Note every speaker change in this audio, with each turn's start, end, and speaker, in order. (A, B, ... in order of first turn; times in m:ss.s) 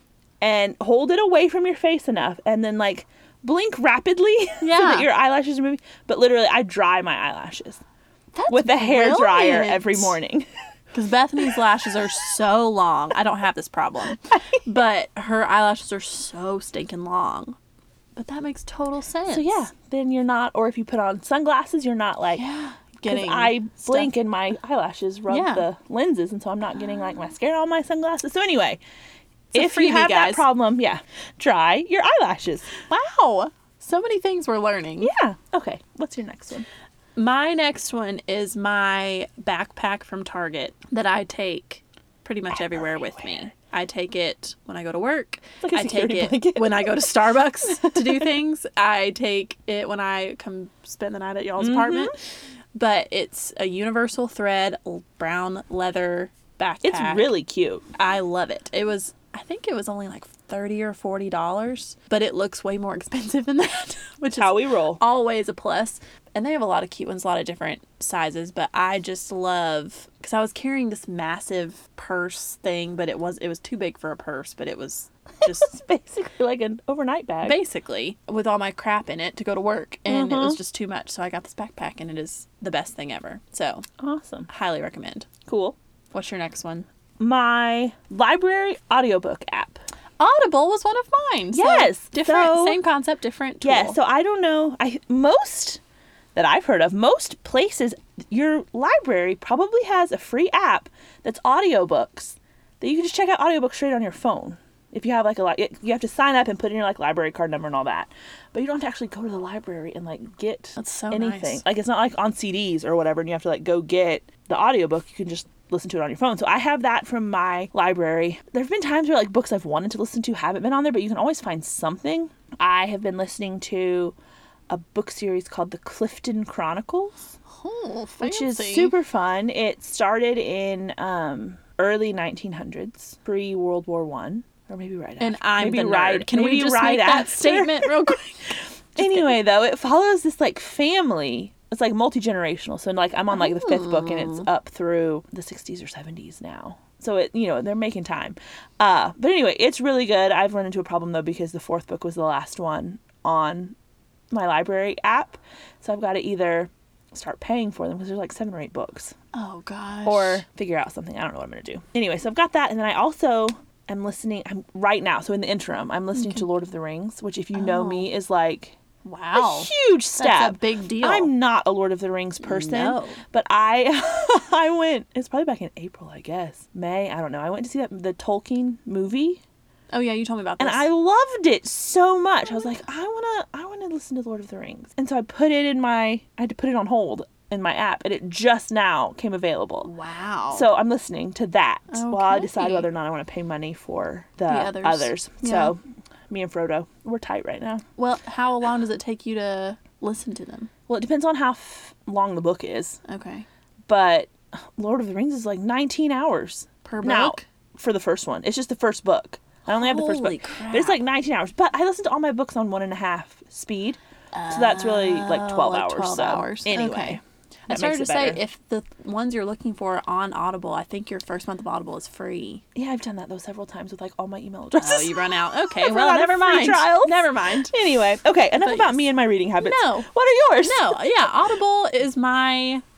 0:00.4-0:07.8 A
0:04.6-0:05.1 B
0:08.3-0:10.2 B
0:08.5-0:10.5 A
0:10.9-0:17.6 B
0:18.2-0:19.7 B
0:19.3-0:22.4 A
0:22.3-0:24.1 B
0:23.1-0:28.8 A
0:25.3-0:25.6 B
0:29.5-0:30.4 B
0:29.5-0:32.7 A
0:32.9-0:35.1 B
0:35.0-0:36.7 A
0:37.2-0:52.2 B
0:45.6-0:47.1 A
0:47.6-0:48.3 A
0:51.6-0:52.1 A
0:52.8-0:57.3 B
0:56.8-0:57.8 A
0:58.0-1:15.8 B
1:04.4-1:05.0 A
1:15.4-1:17.6 A
1:17.4-1:23.9 B
1:20.1-1:20.6 A
1:24.0-1:24.5 A
1:24.5-1:25.3 B
1:25.5-1:25.8 A
1:26.1-1:26.9 B
1:27.2-1:29.8 A
1:30.2-1:34.0 B
1:31.5-1:32.8 A
1:33.6-1:35.8 A
1:36.4-2:04.2 A
1:50.8-1:51.6 B
2:04.7-2:07.3 A
2:07.5-2:08.9 B
2:08.2-2:17.9 A
2:15.2-2:19.4 B
2:19.0-2:33.8 A
2:23.3-2:24.5 B
2:34.3-2:39.2 A
2:39.3-2:40.4 B
2:40.0-2:48.8 A
2:46.2-2:46.5 B
2:47.5-2:48.1 B
2:49.0-2:51.3 B
2:49.4-2:59.4 A
2:52.4-2:53.2 B
2:59.9-3:00.9 B
3:00.6-3:09.9 A
3:09.8-3:10.7 B
3:10.5-3:17.8 A
3:11.9-3:12.9 B
3:14.5-3:15.8 B
3:18.0-3:20.7 B
3:20.9-3:23.0 A
3:23.1-3:23.5 B
3:23.9-3:38.4 A
3:26.8-3:27.4 B
3:29.7-3:31.0 B
3:34.3-3:42.6 B
3:42.8-3:51.1 A
3:44.8-3:47.8 B
3:48.6-3:49.0 B
3:49.6-3:50.1 B
3:50.6-3:52.8 B